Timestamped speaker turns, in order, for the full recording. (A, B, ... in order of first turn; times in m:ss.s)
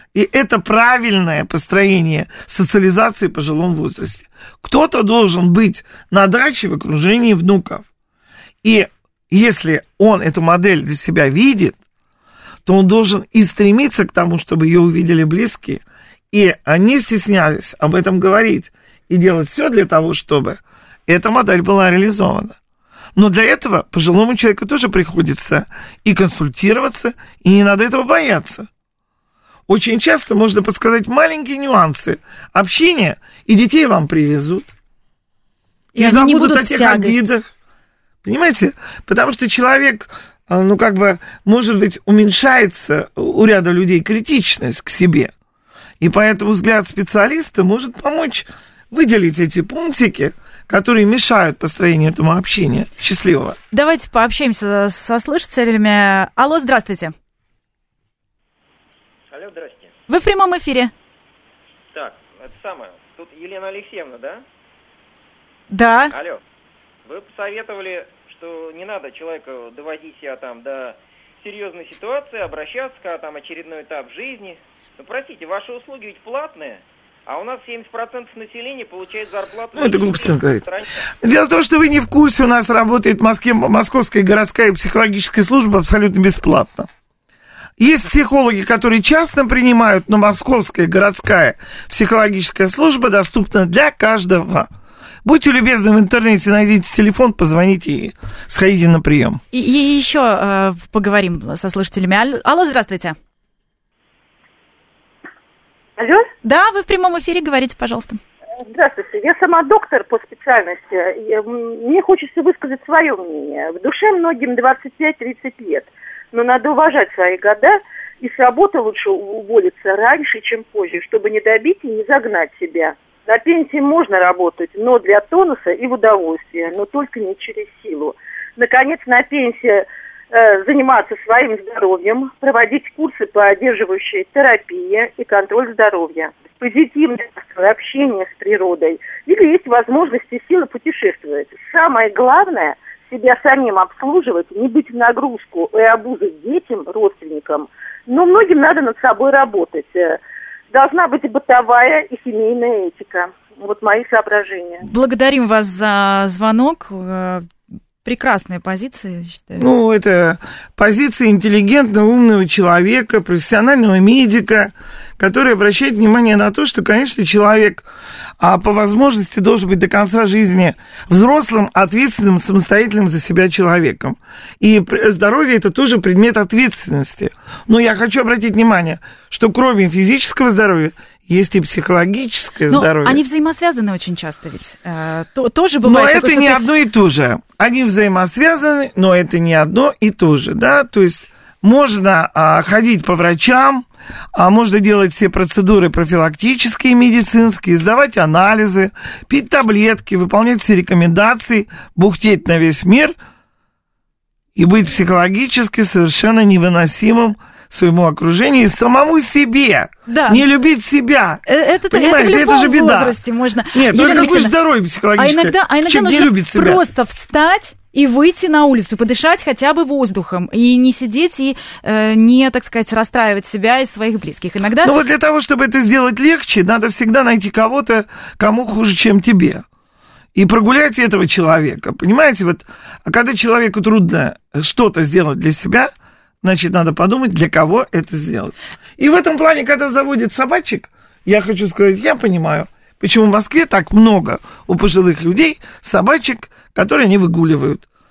0:00.1-0:07.8 A
0:08.6-0:11.8 A
0:12.6-0:22.6 A
0:23.2-0:28.7 A
0:29.7-0:34.7 A
0:35.9-0:37.4 A
0:35.9-0:37.3 B
0:38.2-0:45.3 A
0:46.0-0:53.6 A
0:53.7-0:57.1 B
0:59.3-0:59.9 C
1:00.1-1:00.9 B
1:01.9-1:04.4 C
1:05.7-1:06.1 B
1:06.1-1:06.4 C
1:07.0-1:21.0 C
1:19.7-1:20.7 A
1:21.2-1:26.9 A
1:27.8-1:34.7 A
1:35.2-1:39.4 A
1:39.5-1:43.2 B
1:46.0-1:46.3 D
1:46.4-1:48.2 B
1:48.7-2:30.2 D
2:30.7-2:34.8 D
2:34.8-2:37.5 B
2:38.0-2:39.7 B
2:39.6-2:47.9 A
2:48.4-3:03.2 A
3:02.7-3:06.6 B
3:05.8-3:23.2 A
3:24.5-3:33.2 A
3:30.1-3:30.4 B
3:31.4-3:34.5 B
3:33.7-3:36.8 A
3:35.2-3:44.9 B
3:44.8-3:49.6 A
3:50.3-4:07.8 A